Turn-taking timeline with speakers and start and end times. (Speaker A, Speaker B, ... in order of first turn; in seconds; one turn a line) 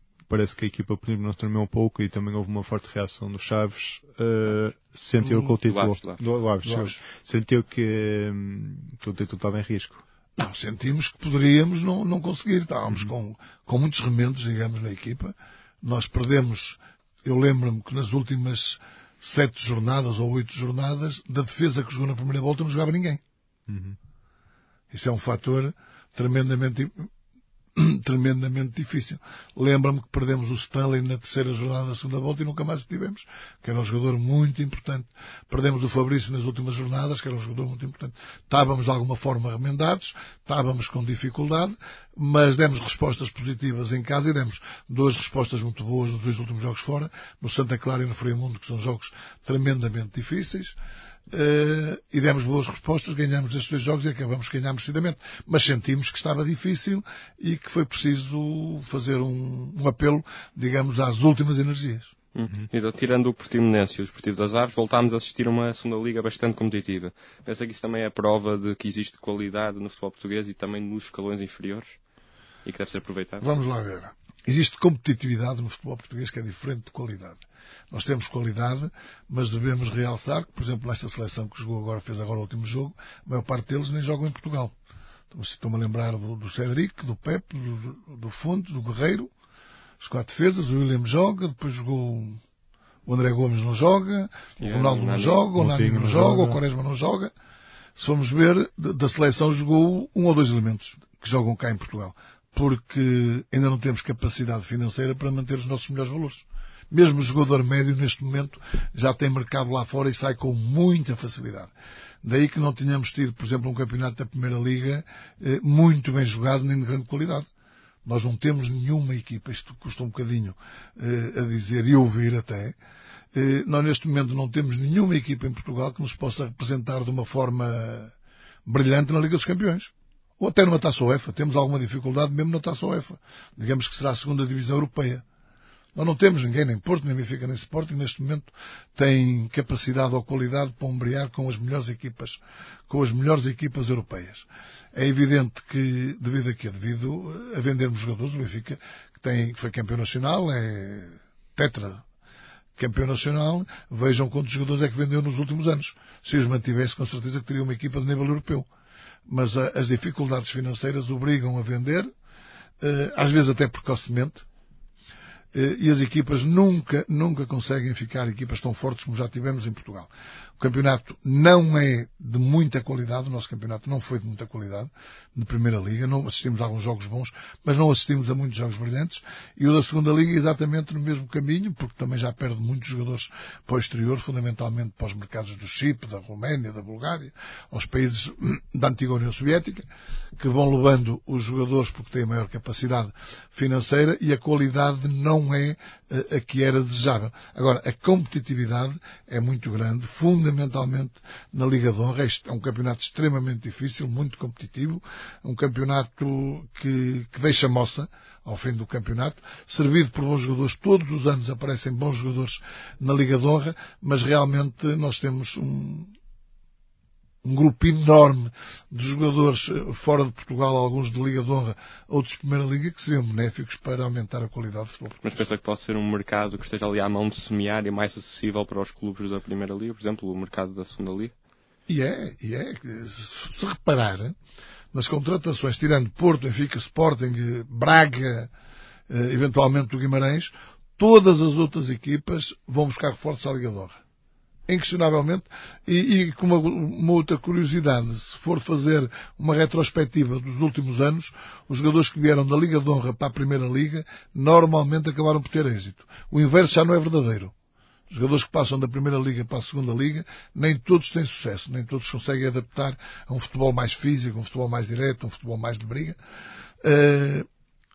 Speaker A: 0.3-10.0
Speaker B: 5.3-6.9
Speaker C: 10.4-23.2
Speaker A: 23.7-24.0
Speaker C: 24.9-27.1
Speaker C: 27.8-50.8
Speaker C: 51.3-62.1
Speaker B: 62.4-72.0
Speaker B: 72.7-73.5
Speaker C: 73.4-84.7
Speaker C: 85.3-89.3
Speaker C: 90.0-92.4
Speaker C: 93.1-97.3
Speaker B: 94.6-95.5
Speaker A: 95.6-96.6
Speaker C: 98.0-111.7
Speaker C: 112.2-117.5
Speaker C: 118.0-122.8
Speaker C: 123.3-128.1
Speaker C: 128.7-135.2
Speaker C: 135.9-152.0
Speaker C: 152.8-158.7
Speaker C: 159.3-162.1
Speaker C: 162.8-164.5
Speaker C: 165.5-189.9
Speaker C: 190.4-216.1
Speaker C: 217.4-225.5
Speaker B: 225.2-231.3
Speaker C: 231.9-234.4
Speaker C: 234.9-238.5
Speaker C: 239.1-244.0
Speaker C: 244.7-257.5
Speaker C: 258.1-266.2
Speaker C: 266.8-267.5